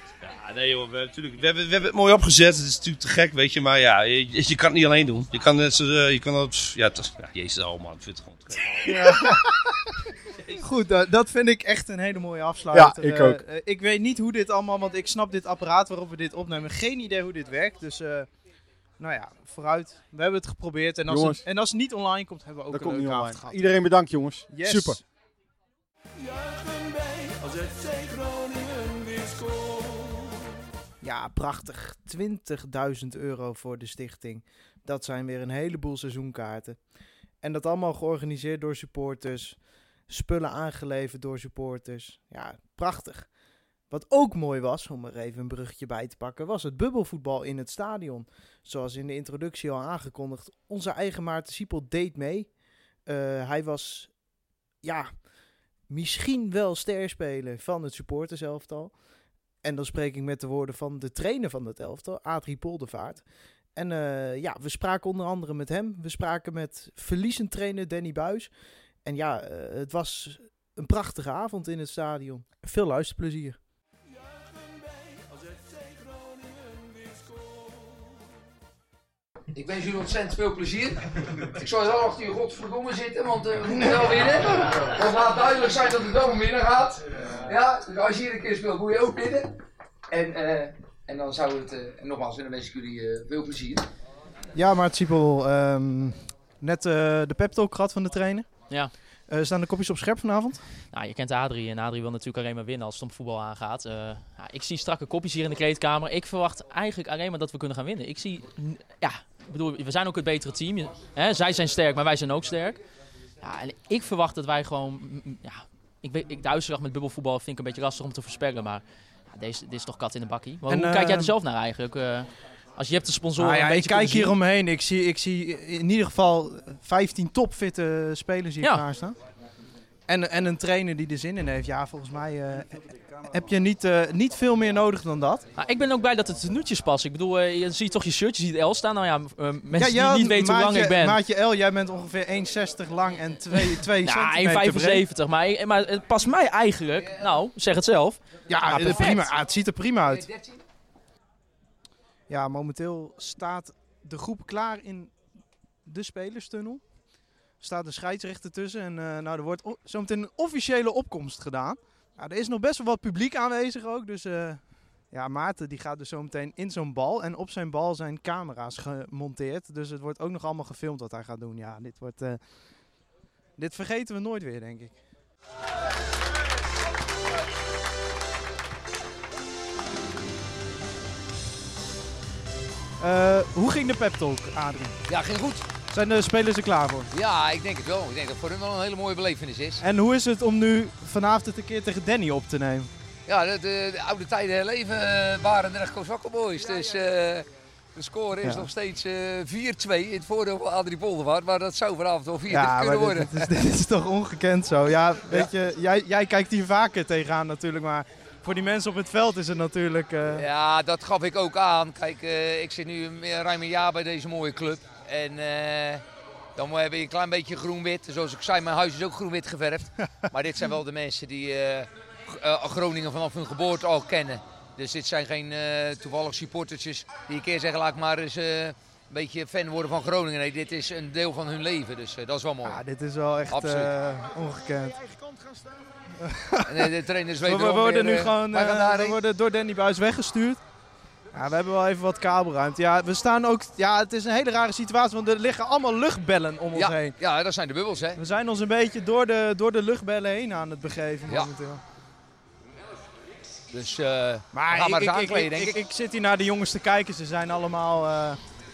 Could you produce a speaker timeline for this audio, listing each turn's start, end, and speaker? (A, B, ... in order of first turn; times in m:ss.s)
0:00.2-0:09.4 A
0:08.8-0:09.8 B
0:10.6-0:18.3 B
0:12.7-0:13.4 C
0:19.0-0:23.6 B
0:21.1-0:21.4 C
0:22.7-0:25.0 C
0:24.5-0:25.0 B
0:26.2-0:30.6 D
0:31.0-0:36.8 B
0:37.4-0:43.3 B
0:43.9-0:54.1 B
0:54.8-0:55.3 B
0:55.9-0:59.0 B
0:59.6-1:13.6 B
1:14.1-1:18.2 D
1:19.5-1:29.6 E
1:30.1-1:33.9 E
1:34.6-1:38.5 B
1:39.3-1:40.6 B
1:40.9-1:52.8 F
1:53.4-2:04.4 F
2:00.7-2:01.3 B
2:03.4-2:09.2 B
2:10.1-2:15.4 B
2:15.6-2:21.2 F
2:19.7-2:25.0 B
2:23.6-2:29.3 F
2:27.0-2:27.3 E
2:28.5-2:30.3 B
2:30.0-2:30.6 E
2:32.3-2:35.2 B
2:35.8-2:36.8 B
2:37.6-2:53.0 B
2:53.6-2:55.0 B
3:03.0-3:05.0 B
3:05.1-3:05.6 E
3:05.9-3:07.1 B
3:07.1-3:09.8 E
3:09.8-3:12.9 B
3:13.3-3:23.5 E
3:18.4-3:18.7 B
3:22.5-3:30.4 B
3:30.3-3:36.0 E
3:36.6-3:52.8 E
3:52.6-3:55.0 B
3:53.5-3:53.9 E
3:56.2-4:00.6 B
3:56.7-3:59.2 E
4:01.3-4:07.2 B
4:06.7-4:08.2 E
4:08.2-4:11.8 B
4:13.7-4:15.8 E
4:14.5-4:18.4 B